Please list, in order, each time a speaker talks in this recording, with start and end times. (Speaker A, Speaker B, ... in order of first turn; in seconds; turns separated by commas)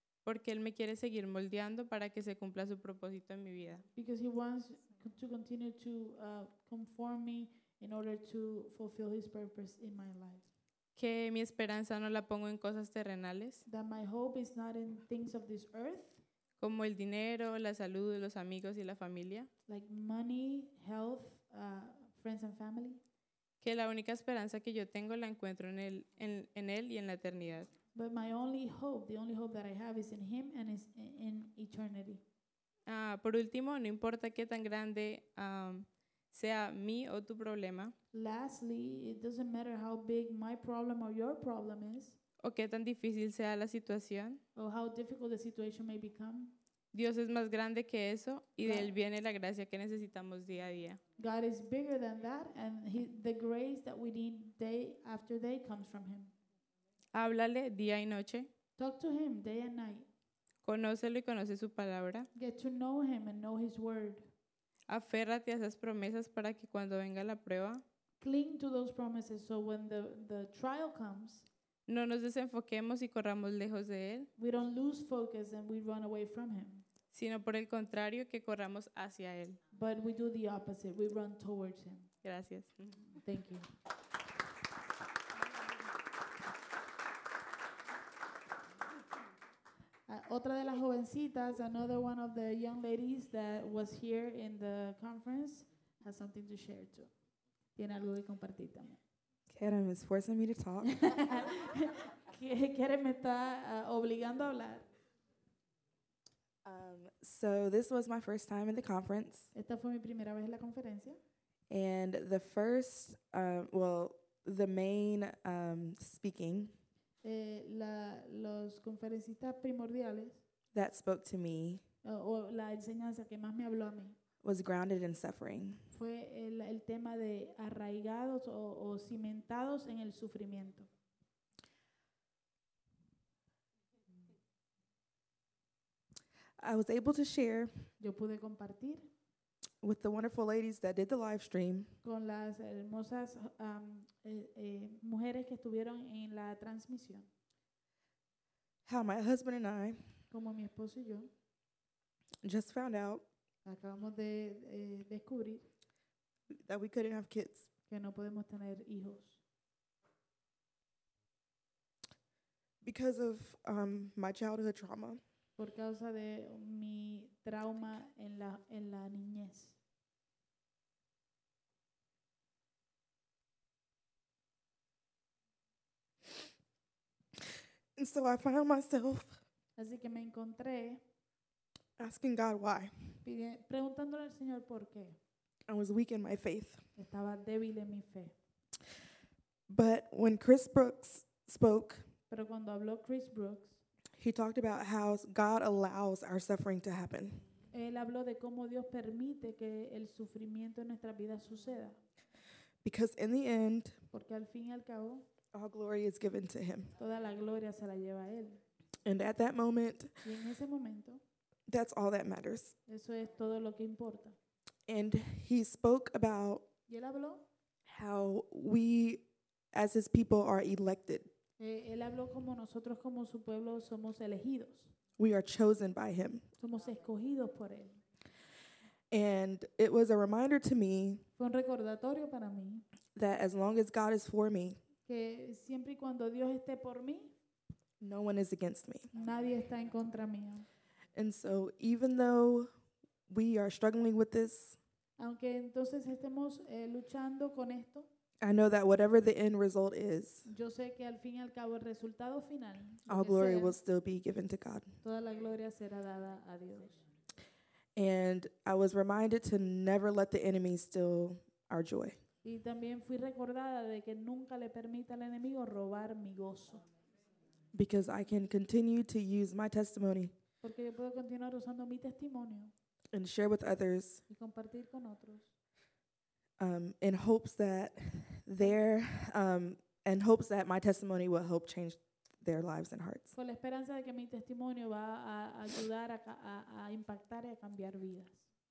Speaker A: 0.2-3.9, Speaker B: 3.9-10.5, Speaker A: 10.9-13.6, Speaker B: 13.7-16.2, Speaker A: 16.6-19.5, Speaker B: 19.7-23.0, Speaker A: 23.6-27.7, Speaker B: 27.9-32.2, Speaker A: 32.9-37.9, Speaker B: 38.1-42.2, Speaker A: 42.4-44.4, Speaker B: 44.5-46.5, Speaker A: 46.9-51.0, Speaker B: 48.6-48.9, Speaker B: 51.2-56.3, Speaker A: 57.1-58.5, Speaker B: 58.8-60.1, Speaker A: 60.6-62.3, Speaker B: 62.3-64.3, Speaker A: 64.9-67.8, Speaker B: 68.2-71.5, Speaker A: 71.9-74.3, Speaker B: 74.4-76.8, Speaker A: 77.1-79.6, Speaker B: 79.7-82.1, Speaker A: 82.2-83.1, Speaker B: 83.2-83.7, Speaker B: 90.1-97.1, Speaker B: 97.8-99.0, Speaker C: 99.5-101.1, Speaker B: 100.8-104.8, Speaker C: 106.6-109.5, Speaker B: 109.5-111.2, Speaker C: 111.7-116.8, Speaker B: 117.2-120.4, Speaker C: 120.7-121.8, Speaker B: 122.0-124.2, Speaker C: 124.4-125.8, Speaker B: 125.9-130.9, Speaker C: 136.6-137.9, Speaker B: 138.0-139.1, Speaker C: 139.8-141.9, Speaker B: 142.0-147.3, Speaker C: 148.8-150.1, Speaker B: 150.3-151.3, Speaker C: 152.4-153.2, Speaker B: 153.6-155.7, Speaker C: 156.5-157.7, Speaker B: 157.9-159.4, Speaker C: 162.8-165.2, Speaker B: 165.6-169.8, Speaker C: 177.9-179.4, Speaker B: 179.8-181.0, Speaker C: 182.0-183.2, Speaker B: 183.2-185.2, Speaker C: 185.7-186.9, Speaker B: 186.9-188.3, Speaker C: 189.7-192.1, Speaker B: 192.3-193.8, Speaker C: 194.2-197.4, Speaker B: 197.7-202.0, Speaker C: 202.8-204.0, Speaker B: 204.1-205.2, Speaker C: 205.5-206.9, Speaker B: 206.9-208.6, Speaker C: 209.0-210.2, Speaker B: 210.2-211.2, Speaker C: 211.7-212.8, Speaker B: 212.9-214.3, Speaker C: 214.9-216.7, Speaker B: 216.9-217.4, Speaker C: 217.8-221.3, Speaker B: 221.6-224.9, Speaker C: 225.2-226.5, Speaker B: 226.6-228.0, Speaker C: 229.1-231.2, Speaker B: 231.3-232.8, Speaker C: 233.1-234.8, Speaker B: 235.1-237.3, Speaker C: 238.0-239.1, Speaker B: 239.1-240.7, Speaker C: 241.1-242.7, Speaker C: 243.3-244.8, Speaker B: 245.2-248.1, Speaker C: 248.4-250.5, Speaker B: 250.4-253.8, Speaker C: 253.1-255.0, Speaker B: 255.0-257.0, Speaker C: 257.9-262.2, Speaker B: 262.4-266.8, Speaker C: 267.7-270.3, Speaker B: 270.6-272.7, Speaker C: 273.1-274.2, Speaker B: 274.3-275.5, Speaker C: 276.6-283.3, Speaker B: 283.3-288.4